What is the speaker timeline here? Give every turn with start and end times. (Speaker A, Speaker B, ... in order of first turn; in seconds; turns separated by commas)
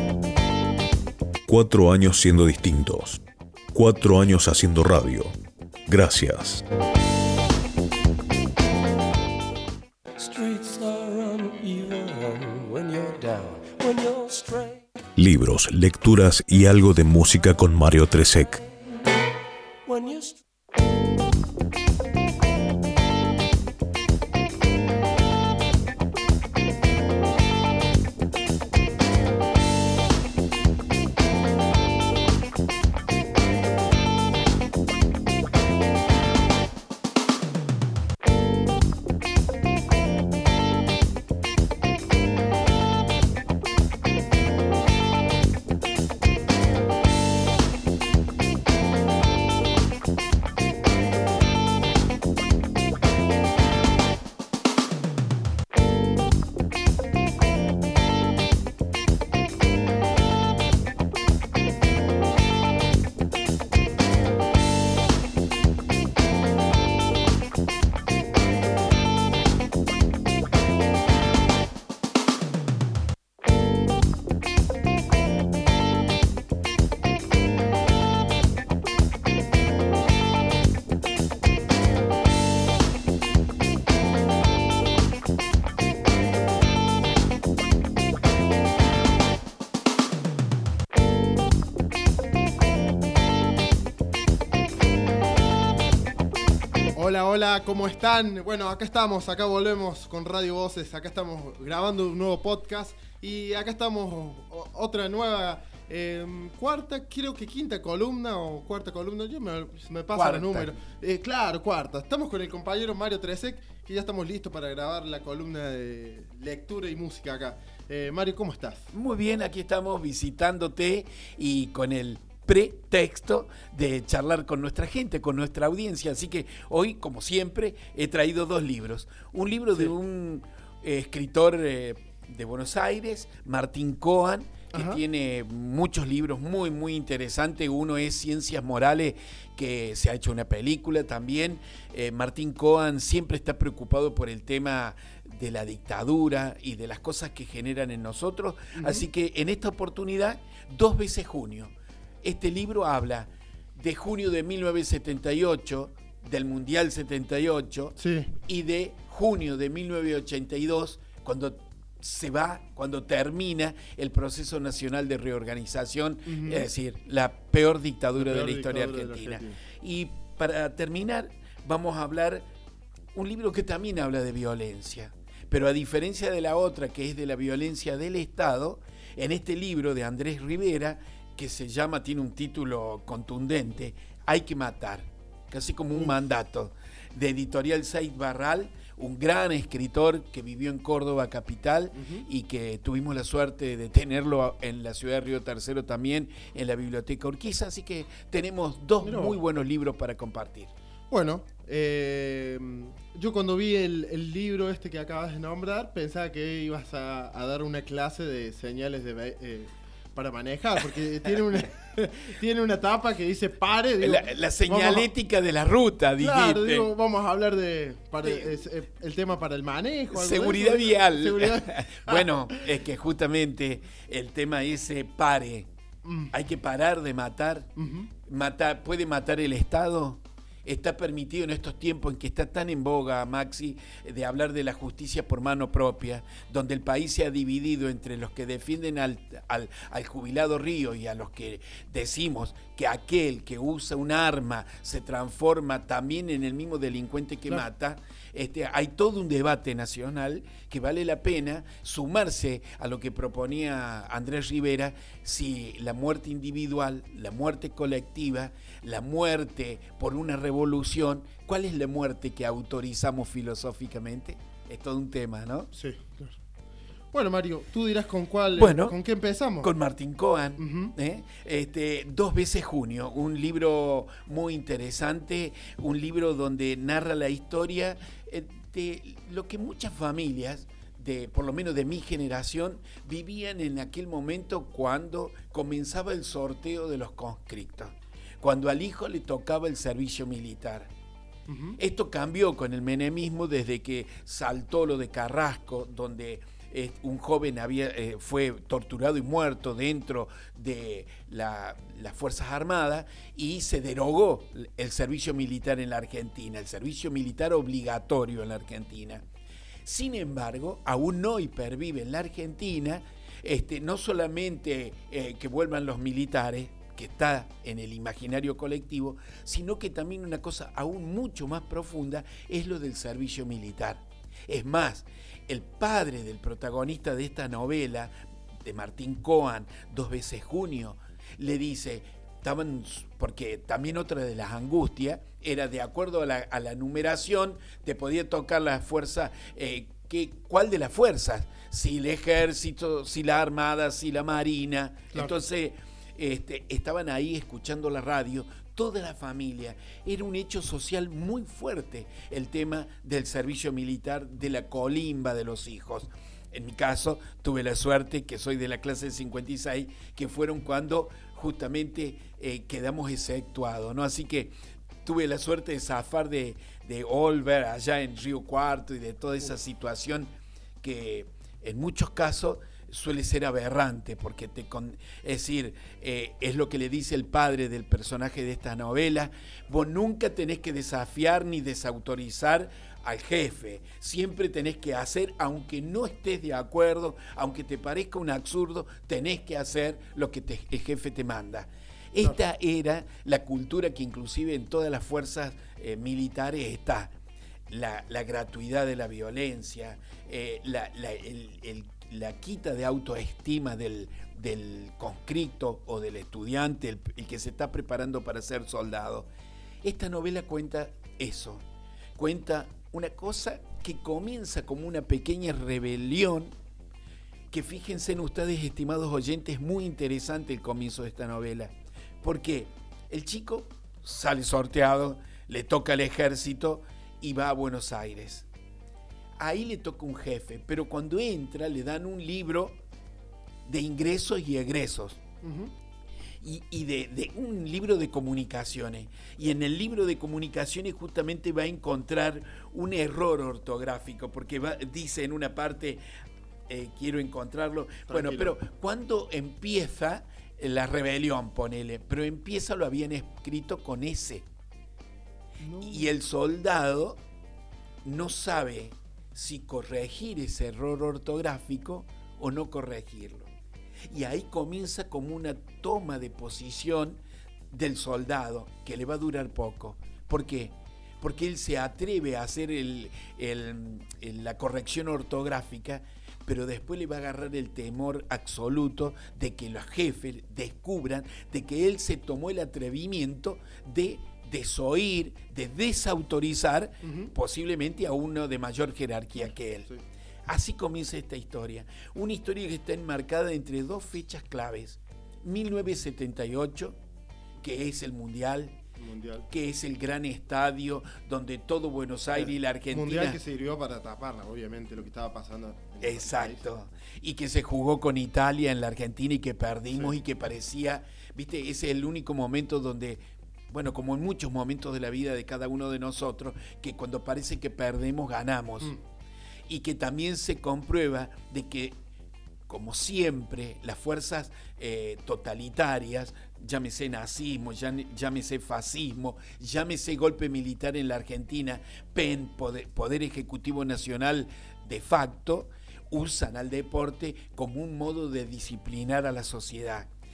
Speaker A: 1.4-3.2, Speaker A: 3.7-5.3, Speaker A: 5.9-6.6, Speaker A: 10.2-18.6, Speaker A: 19.9-20.4, Speaker B: 96.9-118.9, Speaker C: 110.1-110.7, Speaker C: 118.9-172.5, Speaker B: 134.7-135.0, Speaker B: 148.7-149.1, Speaker B: 158.0-158.3, Speaker B: 166.2-166.7, Speaker B: 168.2-169.6, Speaker C: 173.1-200.7, Speaker B: 192.0-192.2, Speaker B: 199.0-199.4, Speaker B: 201.1-215.1, Speaker C: 214.0-216.9, Speaker B: 216.2-222.5, Speaker C: 220.1-225.7, Speaker B: 226.0-226.3, Speaker C: 226.3-227.7, Speaker B: 227.8-228.1, Speaker C: 228.2-265.7, Speaker B: 265.7-266.4, Speaker B: 267.1-269.7, Speaker C: 268.6-269.0, Speaker C: 269.6-290.9, Speaker B: 270.6-270.9, Speaker B: 291.5-291.8, Speaker C: 291.8-309.2, Speaker C: 309.8-397.1, Speaker C: 397.7-409.3, Speaker C: 409.8-411.6, Speaker C: 412.1-416.5, Speaker C: 417.5-428.4, Speaker C: 429.4-432.8, Speaker C: 433.6-435.2, Speaker B: 435.4-435.7, Speaker C: 436.4-446.0, Speaker C: 446.7-454.4, Speaker B: 448.1-448.5, Speaker B: 455.6-456.1, Speaker C: 455.8-457.2, Speaker C: 458.0-463.5, Speaker C: 464.1-467.2, Speaker C: 467.7-489.9, Speaker B: 487.0-487.3, Speaker C: 490.5-497.0, Speaker C: 497.6-498.8, Speaker B: 499.0-499.5, Speaker C: 499.5-503.4, Speaker B: 502.3-506.6, Speaker C: 506.0-519.0, Speaker C: 519.7-522.0, Speaker C: 522.7-540.1